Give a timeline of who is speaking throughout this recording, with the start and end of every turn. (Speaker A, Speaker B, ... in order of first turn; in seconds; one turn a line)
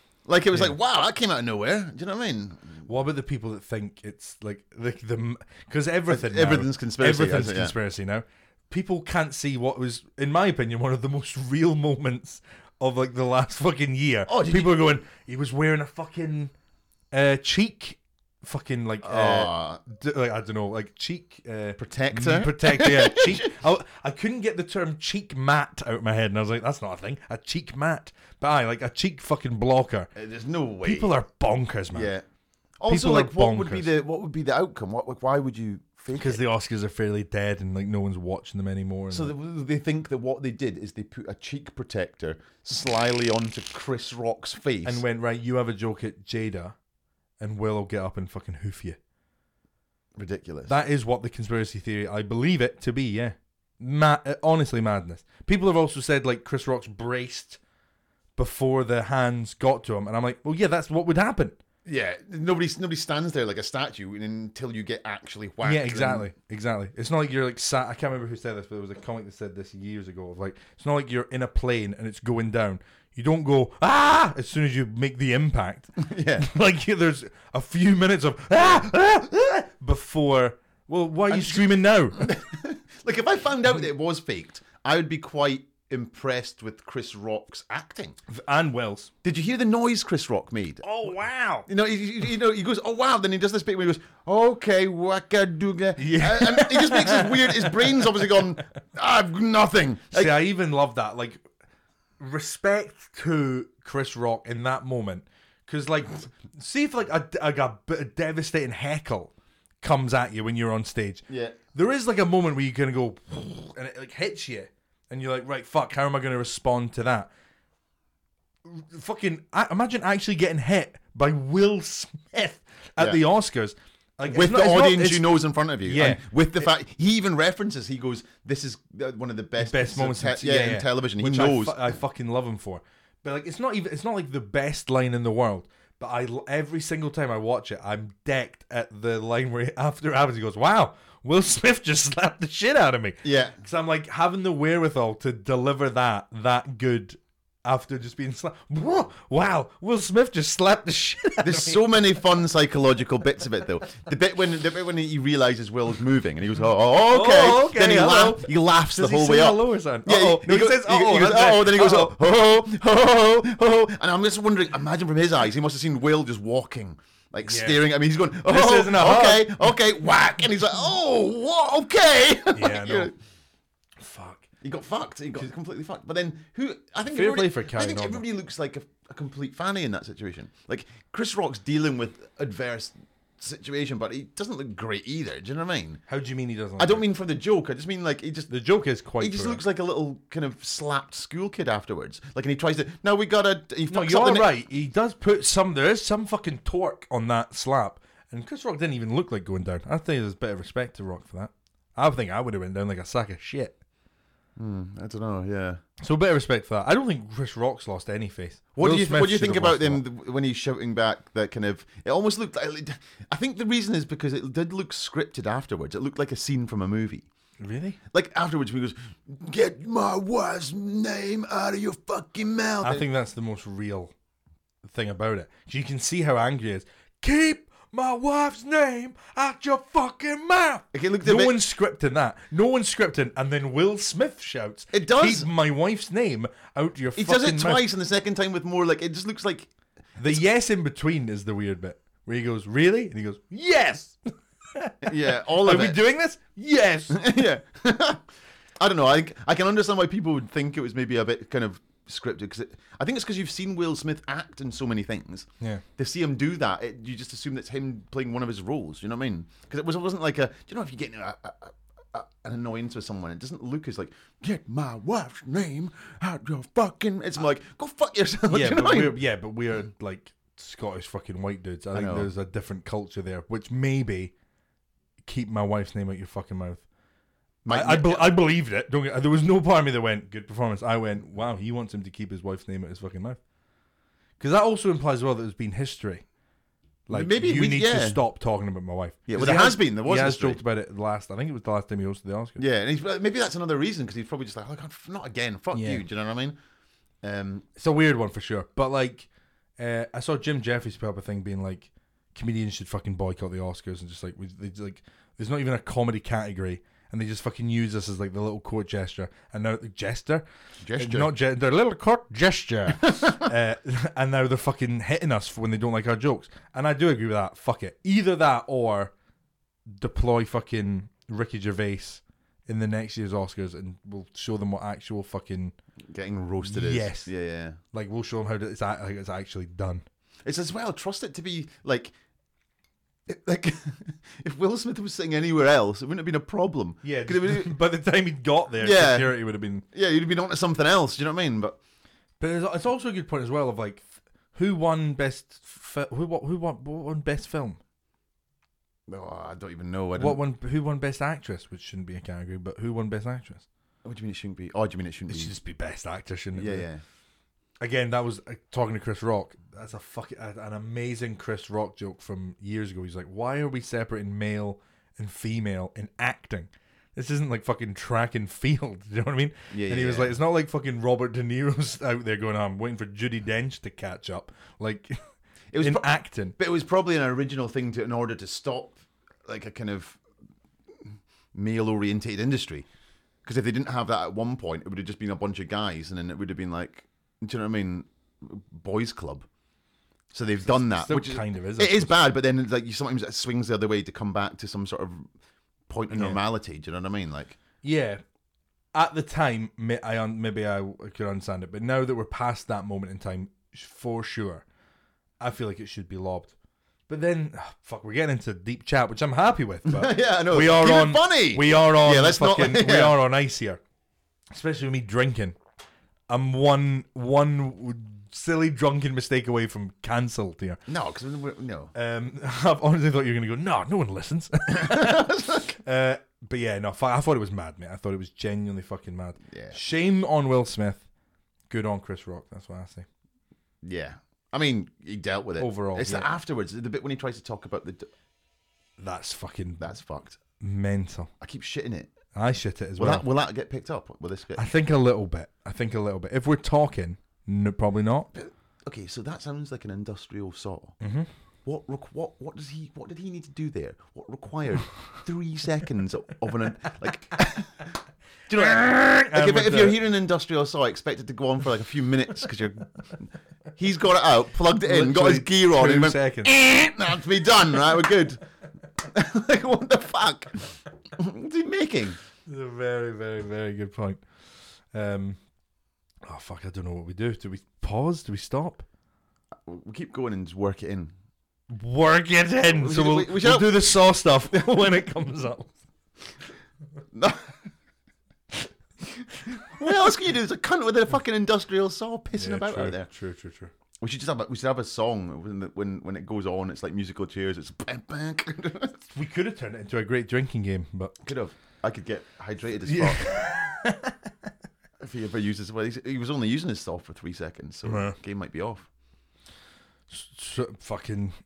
Speaker A: 0.3-2.9
Speaker B: 2.9-16.5
Speaker A: 6.1-7.8
Speaker A: 14.3-14.9
Speaker B: 17.1-30.1
Speaker A: 19.0-19.8
Speaker A: 21.8-23.5
Speaker A: 30.1-31.2
Speaker B: 30.8-32.1
Speaker A: 31.9-32.2
Speaker A: 32.8-36.4
Speaker B: 32.9-33.9
Speaker B: 36.1-39.3
Speaker A: 39.1-45.0
Speaker B: 44.8-46.8
Speaker B: 47.4-49.0
Speaker A: 50.1-50.8
Speaker B: 50.7-57.6
Speaker B: 58.4-61.6
Speaker A: 61.9-66.3
Speaker B: 65.6-82.3
Speaker A: 76.0-76.5
Speaker A: 81.3-88.2
Speaker B: 88.3-89.1
Speaker A: 89.2-90.9
Speaker B: 90.8-91.7
Speaker A: 91.7-100.4
Speaker B: 96.0-98.4
Speaker B: 100.1-101.4
Speaker B: 102.2-117.3
Speaker A: 111.3-111.6
Speaker B: 118.7-126.3
Speaker A: 124.3-132.0
Speaker B: 129.6-151.9
Speaker A: 143.2-143.6
Speaker A: 151.4-173.1
Speaker B: 157.0-162.2
Speaker B: 167.5-167.8
Speaker B: 168.5-169.7
Speaker B: 172.5-173.1
Speaker B: 174.0-174.4
Speaker A: 174.6-186.0
Speaker B: 177.1-178.2
Speaker B: 186.1-187.1
Speaker A: 186.8-188.5
Speaker B: 188.5-189.6
Speaker A: 189.2-194.5
Speaker B: 193.9-203.8
Speaker A: 204.6-205.8
Speaker B: 206.0-210.0
Speaker A: 208.8-217.3
Speaker B: 217.6-218.0
Speaker A: 218.1-223.1
Speaker B: 222.8-224.1
Speaker B: 224.8-237.8
Speaker A: 230.9-231.6
Speaker A: 234.9-235.5
Speaker A: 237.2-239.7
Speaker B: 240.2-247.3
Speaker A: 245.0-246.0
Speaker A: 247.1-248.2
Speaker A: 248.8-269.2
Speaker B: 268.5-274.3
Speaker A: 271.9-272.3
Speaker B: 275.3-276.8
Speaker A: 277.6-278.3
Speaker B: 277.7-283.4
Speaker B: 284.4-286.2
Speaker B: 287.1-292.6
Speaker A: 287.1-288.2
Speaker A: 289.3-290.6
Speaker A: 292.6-296.6
Speaker B: 295.7-296.0
Speaker A: 297.2-297.7
Speaker B: 297.8-299.3
Speaker B: 299.8-310.4
Speaker A: 310.8-311.3
Speaker B: 310.9-319.1
Speaker A: 313.1-313.4
Speaker B: 319.9-325.8
Speaker A: 326.1-327.8
Speaker B: 326.6-327.3
Speaker B: 327.9-330.0
Speaker A: 330.4-332.1
Speaker A: 333.3-337.7
Speaker B: 337.0-339.8
Speaker A: 338.8-339.4
Speaker A: 339.9-341.8
Speaker B: 342.4-347.8
Speaker A: 349.1-350.4
Speaker B: 350.2-353.6
Speaker A: 354.0-355.6
Speaker B: 355.3-356.9
Speaker A: 356.6-357.0
Speaker B: 357.8-375.2
Speaker A: 369.7-370.4
Speaker A: 375.7-380.2
Speaker B: 375.8-376.6
Speaker A: 381.0-382.9
Speaker A: 383.4-389.5
Speaker A: 390.3-395.3
Speaker B: 390.9-392.2
Speaker A: 395.9-397.6
Speaker B: 396.1-396.4
Speaker B: 397.8-398.2
Speaker B: 398.9-404.6
Speaker B: 405.4-406.5
Speaker B: 407.1-413.8
Speaker A: 409.9-413.2
Speaker B: 414.5-415.6
Speaker B: 416.3-420.8
Speaker A: 420.9-421.9
Speaker B: 421.9-431.1
Speaker A: 424.8-425.7
Speaker A: 429.5-429.8
Speaker B: 431.7-433.1
Speaker A: 433.8-438.1
Speaker B: 435.6-436.3
Speaker B: 439.0-439.9
Speaker A: 439.8-440.4
Speaker B: 440.6-441.3
Speaker A: 441.4-442.1
Speaker B: 442.4-443.2
Speaker A: 443.0-444.7
Speaker B: 444.6-448.3
Speaker A: 448.3-451.0
Speaker B: 451.0-451.3
Speaker A: 451.6-457.9
Speaker A: 458.5-468.4
Speaker B: 458.5-460.0
Speaker B: 464.8-466.5
Speaker A: 469.0-470.6
Speaker A: 471.2-472.2
Speaker B: 472.5-474.2
Speaker B: 474.9-475.4
Speaker B: 476.3-478.9
Speaker A: 479.6-481.1
Speaker B: 481.7-485.7
Speaker A: 482.7-483.8
Speaker A: 487.1-487.5
Speaker A: 489.7-493.1
Speaker B: 492.4-493.7
Speaker A: 494.0-499.0
Speaker B: 499.1-501.1
Speaker A: 501.2-503.4
Speaker B: 502.9-504.2
Speaker A: 505.0-508.9
Speaker B: 507.9-508.2
Speaker B: 510.1-511.4